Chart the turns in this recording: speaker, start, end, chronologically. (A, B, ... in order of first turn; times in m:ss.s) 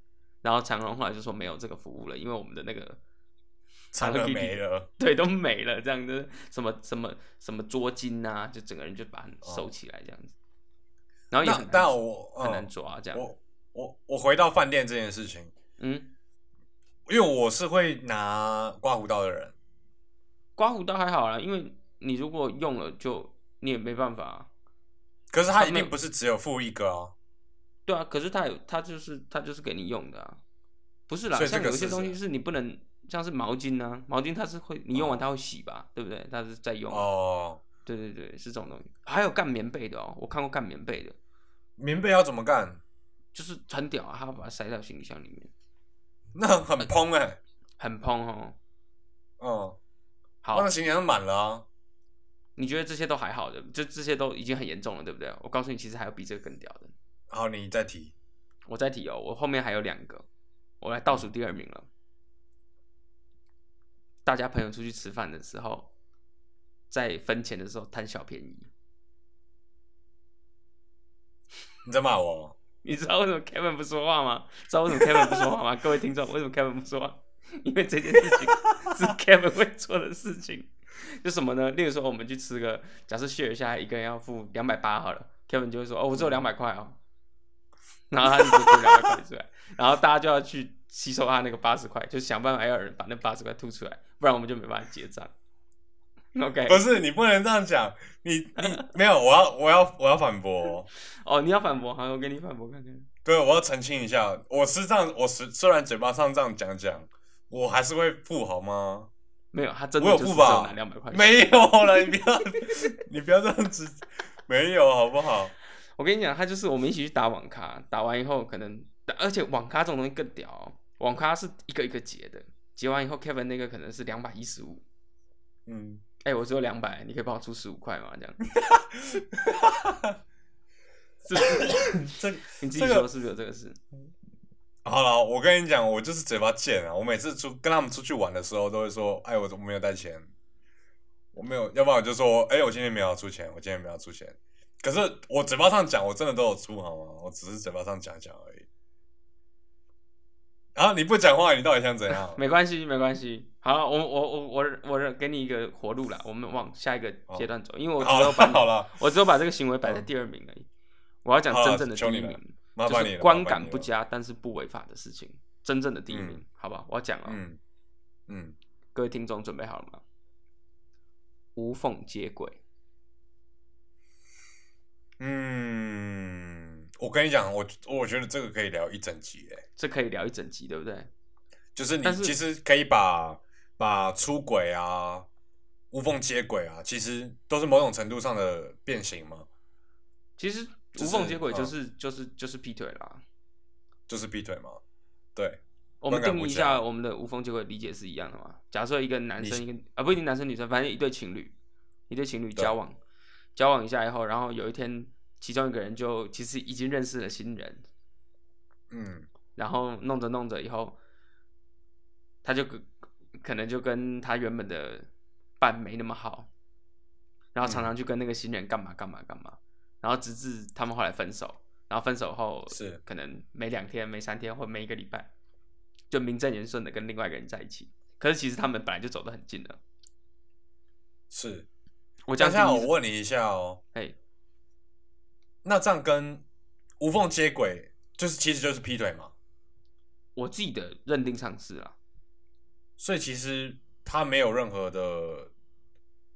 0:00.4-0:03.0 A
0:03.9-0:04.9 B
0:04.0-0:10.3 A
0:09.4-0:09.7 B
0:11.3-0:13.3 A
0:11.4-0:15.5 B
0:15.8-0:16.1 A
0:17.1-0:19.5 B
0:20.6-0:24.5 A
0:25.3-0:27.1 B
0:25.6-0:25.9 A
0:27.9-0:30.4 A
0:31.1-0:37.0 A
0:31.3-0:32.2 B
0:34.9-0:35.2 B
0:36.9-0:37.6 B
0:37.8-0:41.2 A
0:41.8-0:42.8 B
0:43.3-0:45.5 A
0:46.3-0:47.4 B
0:47.8-0:48.6 A
0:49.4-0:49.8 B
0:50.4-0:50.7 A
0:50.5-0:51.6 B
0:52.6-0:56.9 A
0:57.3-0:58.1 B
0:58.7-1:00.3 A
1:00.8-1:01.9 A
1:04.2-1:05.9 A
1:06.9-1:08.7 A
1:11.8-1:12.5 B
1:12.8-1:27.0 A
1:26.1-1:26.4 B
1:28.1-1:35.3 A
1:28.2-1:29.2 B
1:36.3-1:36.8 A
1:36.7-1:40.9 B
1:41.1-1:43.1 A
1:43.2-1:49.1 B
1:49.5-1:51.5 A
1:50.0-1:55.5 B
1:56.0-2:04.8 A
2:05.7-2:06.0 B
2:06.2-2:08.4 A
2:08.6-2:10.2 B
2:11.2-2:13.8 A
2:11.4-2:13.0 B
2:14.8-2:20.3 B
2:21.3-2:28.7 B
2:30.7-2:32.4 B
2:32.1-2:40.6 A
2:37.3-2:38.9 B
2:41.2-2:47.4 A
2:41.5-2:43.9 B
2:46.1-2:46.4 B
2:47.2-2:47.6 B
2:48.3-2:48.5 B
2:48.9-2:50.0 A
2:51.5-2:52.6 A
2:55.2-2:59.6 B
2:59.8-3:01.1 A
3:01.7-3:05.3 B
3:02.0-3:02.4 A
3:05.9-3:09.5 B
3:10.4-3:13.2 A
3:11.0-3:11.7 B
3:14.1-3:14.8 B
3:15.4-3:16.8 B
3:16.0-3:21.5 A
3:22.1-3:23.0 A
3:23.6-3:27.9 A
3:28.9-3:29.3 B
3:29.6-3:31.0 A
3:32.4-3:35.1 A
3:35.6-3:36.5 A
3:37.5-3:45.3 A
3:37.6-3:37.9 B
3:42.7-3:43.0 B
3:46.1-3:49.8 A
3:51.3-3:51.7 B
3:52.3-3:52.9 A
3:52.4-3:53.8 B
3:55.6-3:56.4 B
3:57.0-3:59.3 B
4:00.4-4:01.9 A
4:03.0-4:05.5 B